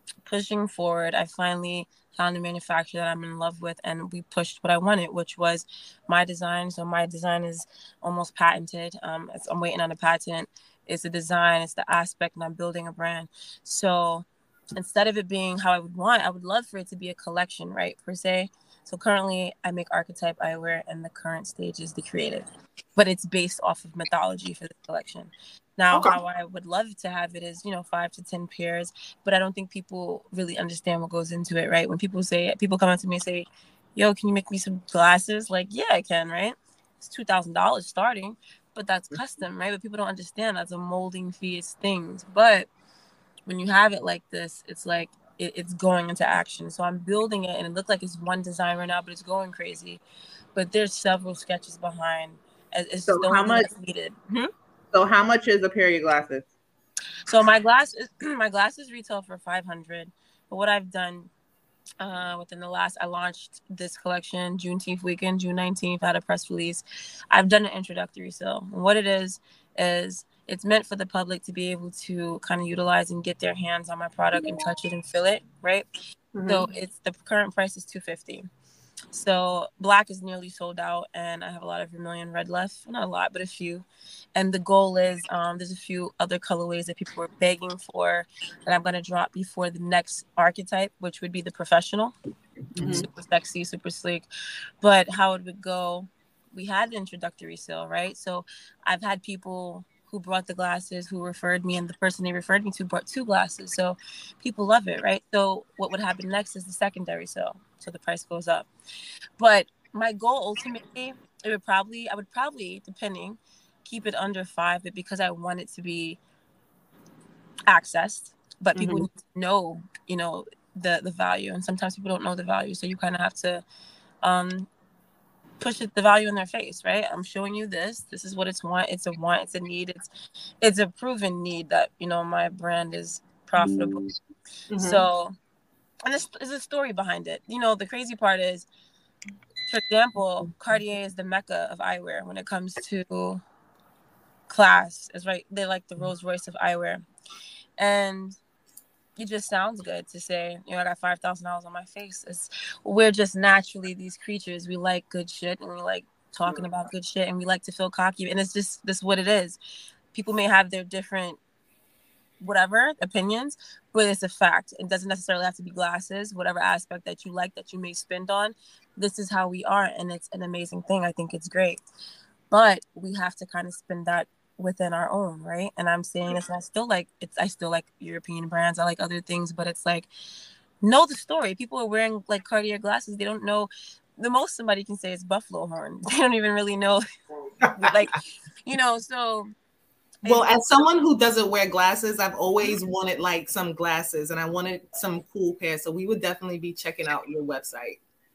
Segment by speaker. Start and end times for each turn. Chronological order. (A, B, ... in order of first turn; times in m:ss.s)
0:00.2-0:42.7 A
0:43.5-0:50.0 A
0:50.6-0:54.2 A
0:53.1-0:53.7 B
0:54.9-0:56.5 B
0:57.3-1:01.3 A
1:02.0-1:15.9 A
1:16.4-1:16.7 C
1:16.4-1:18.5 A
1:19.1-1:32.1 A
1:32.8-1:34.3 A
1:34.8-1:48.7 A
1:49.4-1:56.2 A
1:57.7-2:03.6 A
1:58.8-1:59.0 C
2:04.2-2:04.7 A
2:05.6-2:10.0 A
2:10.6-2:14.0 A
2:14.7-2:15.0 C
2:14.8-2:15.4 A
2:16.1-2:18.7 A
2:19.7-2:23.4 A
2:24.5-2:27.0 A
2:27.8-2:28.4 A
2:29.2-2:39.6 A
2:40.1-2:41.4 A
2:42.4-2:51.8 A
2:52.5-3:00.1 A
3:00.8-3:07.0 A
3:07.8-3:09.5 A
3:10.2-3:10.5 A
3:10.2-3:18.0 C